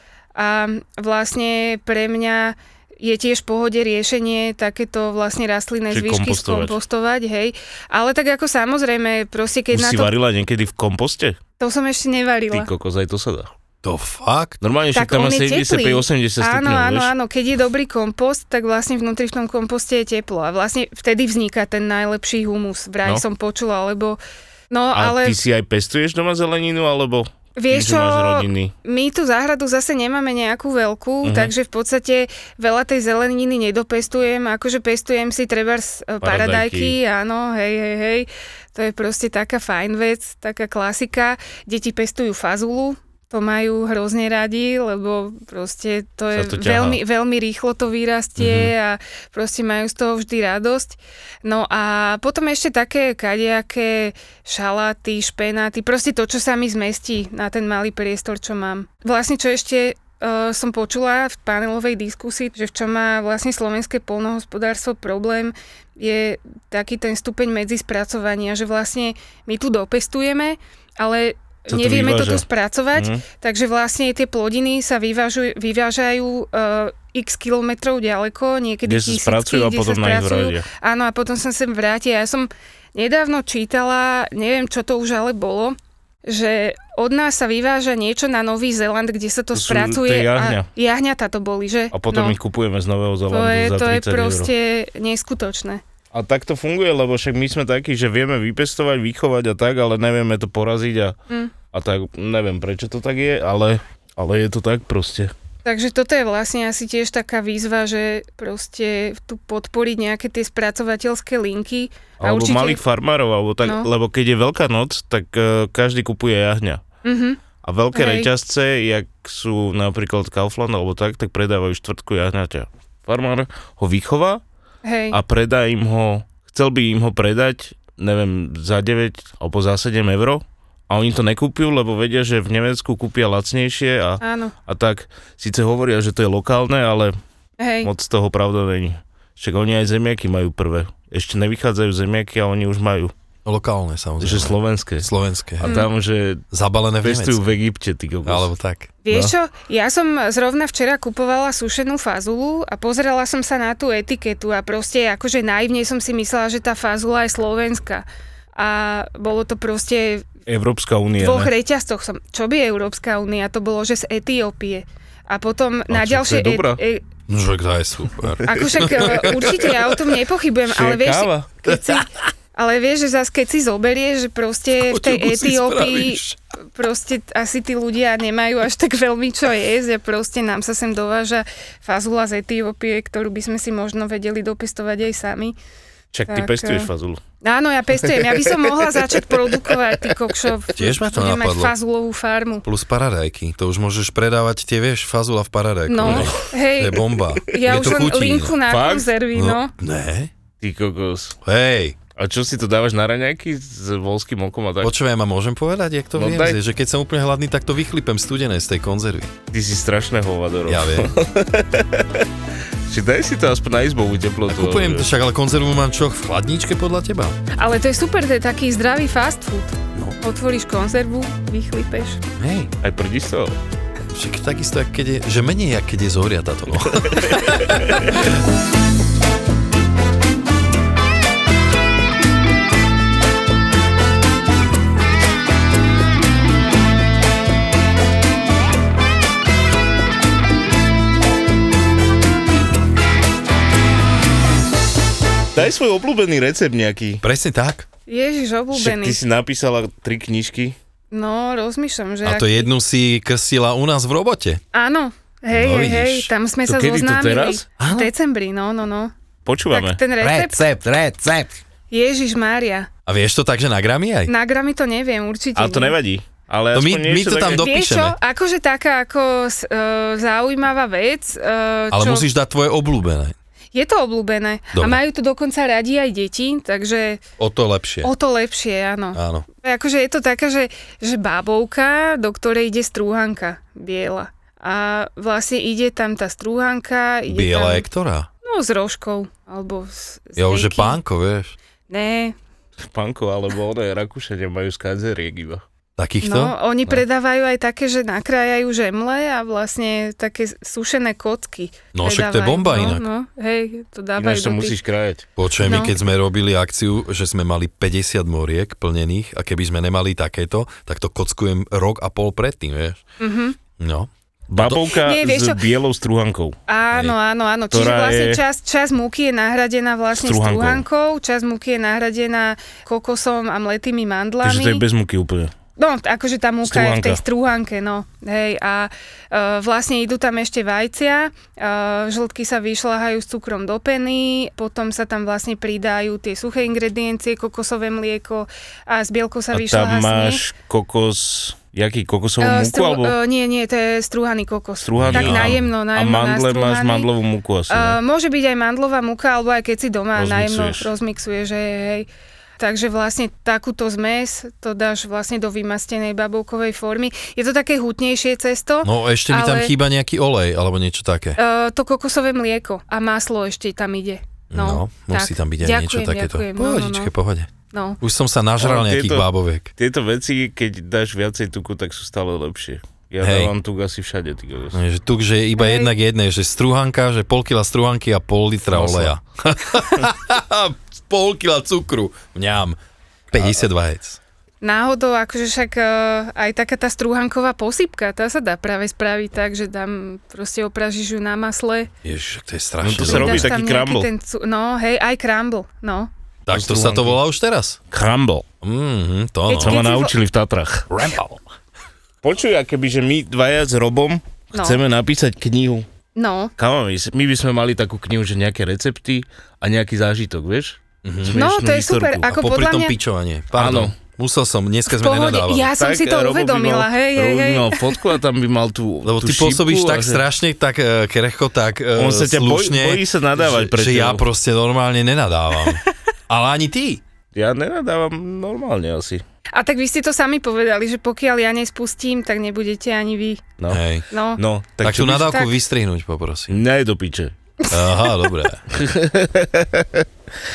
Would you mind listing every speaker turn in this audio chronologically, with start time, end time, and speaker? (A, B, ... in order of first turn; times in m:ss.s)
0:00.4-0:10.1 A
0:05.9-0:06.8 B
0:09.7-0:11.4 B
0:11.6-0:12.7 A
0:12.5-0:13.5 B
0:13.8-0:14.6 C
0:14.6-0:17.1 B
0:14.9-0:24.2 A
0:24.7-0:25.4 A
0:24.9-0:28.7 B
0:27.6-1:32.4 A
0:31.2-0:31.5 B
0:36.2-0:37.0 B
0:46.3-0:47.0 B
0:48.4-0:48.7 C
1:11.7-1:13.2 B
1:18.9-1:20.7 B
1:29.5-1:30.7 B
1:31.9-1:34.5 B
1:33.3-1:35.8 A
1:36.1-1:41.2 B
1:41.7-1:45.3 B
1:45.6-1:52.8 A
1:52.2-1:56.8 B
1:53.6-1:53.9 A
1:57.0-1:57.4 A
1:57.6-2:04.4 B
1:57.9-1:58.3 A
2:04.8-2:05.2 A
2:05.1-2:17.2 B
2:14.2-2:14.5 A
2:17.6-2:17.9 A
2:17.8-2:23.1 B
2:23.4-2:25.8 C
2:24.2-2:26.4 B
2:26.5-2:27.5 C
2:27.0-2:28.5 B
2:28.2-2:28.9 C
2:29.0-2:38.0 A
2:38.6-2:40.3 A
2:40.5-2:41.5 B
2:41.2-2:47.0 A
2:45.9-2:46.8 B
2:47.3-2:49.6 C
2:48.4-2:49.3 B
2:48.4-2:56.2 A
2:50.7-2:51.5 B
2:51.7-2:52.0 C
2:54.8-2:56.4 C
2:56.8-3:05.6 A
3:06.1-3:07.2 B
3:06.3-3:06.9 A
3:07.4-3:12.7 A
3:08.1-3:10.2 B
3:10.8-3:11.7 C
3:12.6-3:18.6 C
3:15.9-3:19.7 A
3:16.0-3:16.4 B
3:18.7-3:19.1 B
3:19.3-3:20.3 C
3:20.6-3:21.4 B
3:21.4-3:22.0 C
3:22.2-3:24.9 B
3:24.8-3:29.4 C
3:26.2-3:26.6 B
3:29.5-3:32.3 B
3:30.7-3:31.1 C
3:32.9-3:35.1 B
3:34.5-3:37.4 C
3:37.6-3:42.2 A
3:42.4-3:42.7 C
3:42.8-3:43.6 B
3:44.1-3:48.3 C
3:47.0-3:48.1 B
4:05.6-4:07.2 B
4:07.2-4:07.9 C
4:08.1-4:09.2 A
4:08.7-4:10.8 B
4:11.1-4:12.7 A
4:12.2-4:14.6 C
4:14.7-4:19.1 A
4:15.5-4:16.3 C
4:16.7-4:17.7 B
4:17.8-4:18.1 C
4:19.5-4:21.5 B
4:19.7-4:20.6 A
4:20.5-4:21.3 C
4:21.9-4:22.9 A
4:23.1-4:24.3 C
4:24.3-4:26.0 A
4:25.6-4:27.7 B
4:26.7-4:28.2 C
4:27.6-4:32.3 A
4:31.9-4:33.4 C
4:33.7-4:37.2 A
4:34.7-4:35.0 C
4:37.4-4:38.1 C
4:38.0-4:47.9 A
4:39.1-4:39.5 C
4:47.3-4:48.3 C
4:48.4-4:51.0 A
4:50.4-4:51.6 C
4:51.9-4:52.4 A
4:52.8-4:55.6 B
4:56.0-4:56.5 C
4:56.2-5:04.8 A
5:01.9-5:03.0 C
5:04.2-5:05.3 B
5:05.4-5:13.0 C
5:05.6-5:05.9 A
5:13.2-5:13.6 A
5:13.8-5:14.1 C
5:14.5-5:16.6 B
5:14.6-5:15.6 A
5:16.7-5:24.8 A
5:17.7-5:18.4 B
5:20.2-5:20.8 B
5:24.4-5:25.5 B
5:25.8-5:40.4 A
5:26.7-5:27.2 B
5:39.5-5:43.2 B
5:42.4-5:47.1 A
5:44.8-5:48.0 B
5:45.0-5:45.6 C
5:47.7-5:52.1 A
5:50.2-5:50.9 B
5:52.6-5:59.7 A
5:58.8-6:01.4 C
6:01.4-6:07.1 A
6:04.5-6:09.7 C
6:07.7-6:08.0 A
6:08.6-6:14.8 B
6:13.2-6:13.5 C
6:14.7-6:22.8 C
6:15.6-6:15.9 A
6:18.7-6:19.1 B
6:23.3-6:24.2 C
6:24.6-6:31.9 A
6:32.0-6:33.5 C
6:32.8-6:34.1 B
6:33.0-6:36.1 A
6:36.5-6:37.8 C
6:36.5-6:37.2 B
6:37.9-6:38.4 B
6:38.6-6:39.8 C
6:39.5-6:40.1 A
6:39.6-6:41.0 B
6:40.9-6:41.4 C
6:42.2-6:45.9 B
6:44.5-6:44.8 A
6:46.2-6:46.5 A
6:46.6-6:52.3 B
6:51.0-6:51.4 C
6:51.3-6:53.0 A
6:52.3-6:55.7 C
6:53.6-6:54.0 B
6:54.9-6:57.8 A
6:55.8-7:00.2 B
6:59.0-7:07.0 C
7:02.0-7:04.2 B
7:07.3-7:09.2 B
7:09.6-7:13.4 A
7:13.6-7:13.8 B
7:13.7-7:14.1 C
7:14.1-7:14.4 A
7:14.4-7:15.5 B
7:14.8-7:16.6 C
7:16.5-7:17.3 B
7:17.7-7:18.3 A
7:17.7-7:18.7 C
7:18.7-7:20.1 B